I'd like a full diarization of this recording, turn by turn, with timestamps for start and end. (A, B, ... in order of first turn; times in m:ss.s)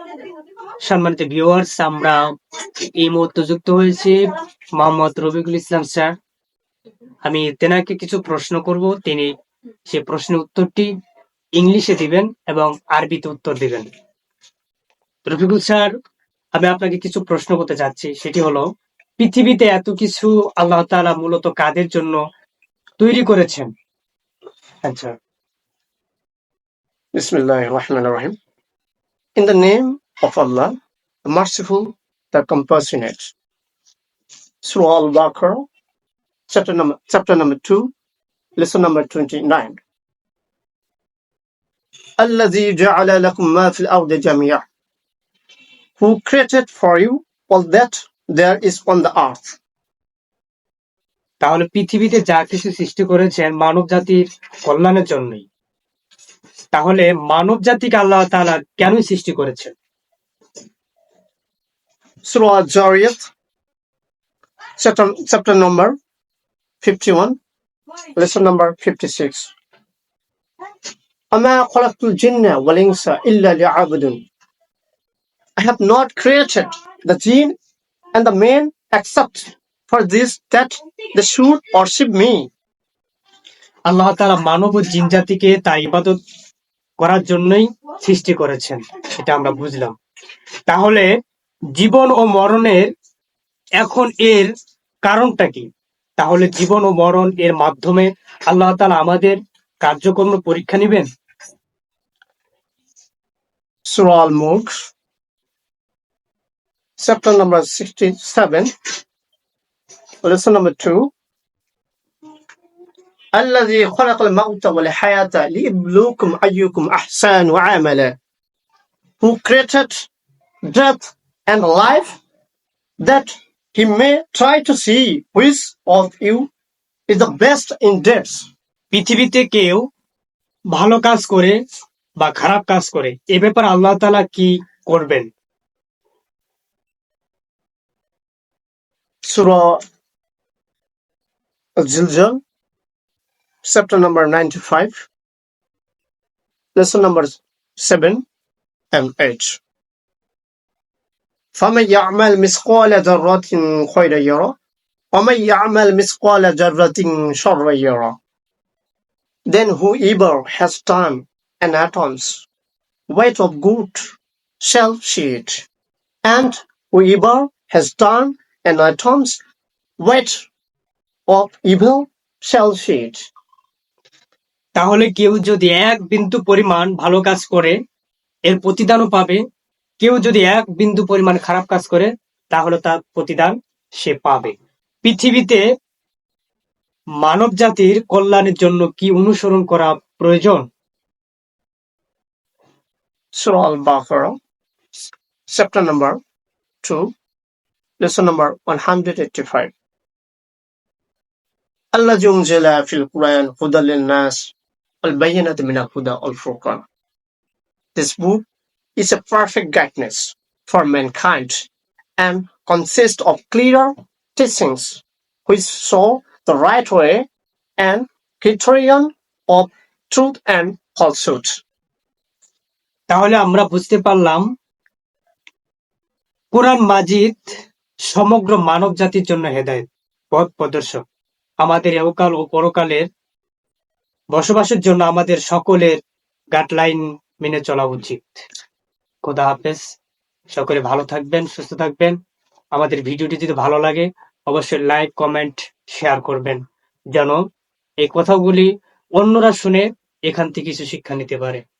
0:00.8-0:02.2 A
0:02.8-0:06.1 A
0:07.2-0:09.3 A
0:09.9-0:10.9 A
0:11.6-0:13.8 A
0:15.3-0:15.9 A
0:16.6-0:18.6 A
0:19.2-0:22.2 A
0:23.0-0:23.7 A
0:24.8-0:25.1 A
0:27.1-0:28.3 B
0:29.4-0:30.7 B
0:31.3-0:33.3 B
0:34.6-0:35.6 B
0:36.5-0:37.9 B
0:38.6-0:39.8 B
0:42.2-0:44.6 B
0:46.0-0:49.6 B
0:51.4-0:55.4 A
0:56.7-0:59.7 A
1:02.2-1:03.2 B
1:04.8-1:05.9 B
1:06.8-1:07.4 B
1:08.2-1:09.5 B
1:11.3-1:14.2 B
1:15.6-1:17.5 B
1:18.1-1:22.4 B
1:23.9-1:26.2 A
1:27.0-1:29.9 A
1:30.7-1:31.1 A
1:31.7-1:32.9 A
1:33.8-1:34.5 A
1:35.0-1:35.6 A
1:36.2-1:41.0 A
1:43.9-1:44.7 B
1:47.0-1:48.7 B
1:50.2-1:51.1 B
1:53.3-1:58.1 B
1:59.2-2:00.1 B
2:00.7-2:02.2 B
2:03.0-2:06.5 B
2:07.1-2:08.5 B
2:08.9-2:09.8 A
2:10.7-2:11.6 A
2:12.2-2:15.3 A
2:19.3-2:19.8 B
2:21.8-2:22.4 B
2:23.6-2:24.9 B
2:26.8-2:28.2 B
2:28.9-2:29.6 B
2:31.5-2:34.5 B
2:35.1-2:38.2 B
2:39.5-2:42.4 B
2:43.1-2:44.0 B
2:44.6-2:45.6 B
2:46.2-2:49.4 B
2:50.0-2:50.4 B
2:51.3-2:53.2 B
2:54.8-2:57.8 A
2:58.5-2:59.4 A
3:00.0-3:05.6 A
3:07.2-3:10.6 A
3:13.3-3:14.3 B
3:15.5-3:16.2 B
3:16.8-3:17.1 B
3:18.0-3:19.7 B
3:21.9-3:26.8 B
3:27.9-3:37.2 B
3:37.8-3:41.6 B
3:43.1-3:44.4 A
3:46.5-3:47.5 A
3:48.1-3:51.0 A
3:51.6-3:53.0 A
3:54.3-3:56.0 A
3:56.5-3:58.2 A
3:59.2-3:59.8 A
4:00.5-4:02.1 A
4:02.7-4:06.6 A
4:07.1-4:07.4 A
4:08.0-4:11.6 A